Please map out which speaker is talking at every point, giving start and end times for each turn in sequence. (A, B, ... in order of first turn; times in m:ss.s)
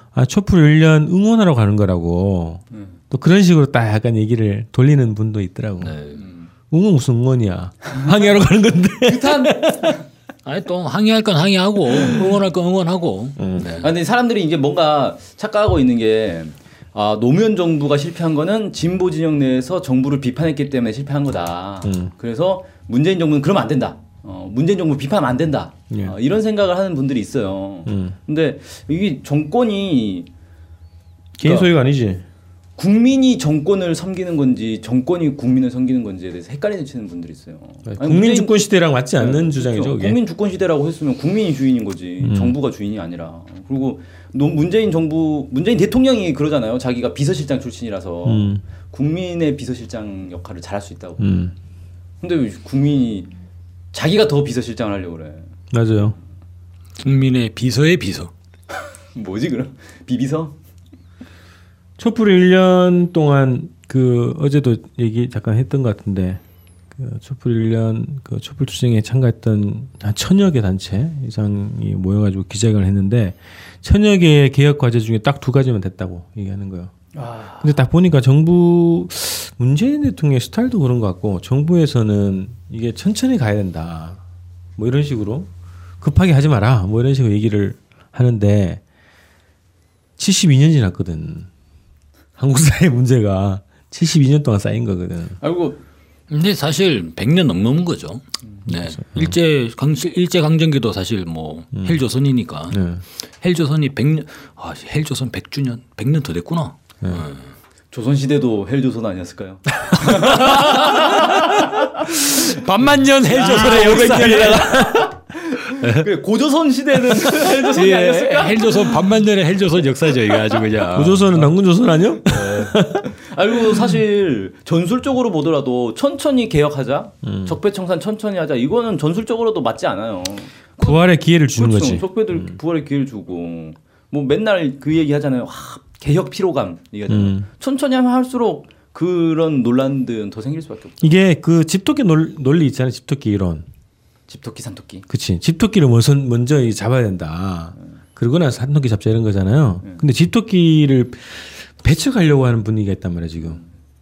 0:00.2-0:05.9 A
0:05.8-0:06.2 B
0:06.2-0:06.5 C
0:06.7-0:10.0 A
0:09.0-0:10.0 C
0:10.4-0:13.9 B
0:13.4-0:13.6 A
0:13.8-0:30.3 C
0:21.8-0:22.1 A
0:27.9-0:28.2 A
0:31.4-0:32.2 A
0:31.4-0:31.7 C
0:32.8-0:38.6 C
0:37.9-0:40.2 A
0:39.2-0:51.5 C
0:42.2-0:42.6 A
0:48.3-0:48.6 A
0:51.2-0:51.5 A
0:52.2-0:53.3 C
0:53.9-0:55.5 C
0:55.7-0:56.2 A
0:57.0-0:58.3 B
0:59.2-1:00.6 C
1:02.0-1:06.4 A
1:07.0-1:16.9 A
1:17.2-1:17.8 C
1:17.6-1:24.2 A
1:24.8-1:25.5 A
1:26.0-1:28.8 A
1:30.2-1:31.5 A
1:32.4-1:35.4 A
1:35.4-1:35.8 C
1:36.3-1:42.8 B
1:38.7-1:39.3 A
1:42.7-1:43.0 A
1:43.4-1:47.4 B
1:47.9-1:52.4 C
1:50.1-1:51.4 B
1:52.0-1:54.7 B
1:53.3-1:58.9 C
1:53.4-1:55.1 A
1:55.8-1:56.0 B
1:57.2-2:01.4 B
2:00.9-2:03.1 A
2:02.3-2:11.0 C
2:07.2-2:07.6 A
2:10.8-2:12.6 A
2:11.6-2:21.2 C
2:17.1-2:17.5 A
2:21.0-2:23.7 A
2:24.3-2:25.1 C
2:25.1-2:33.6 A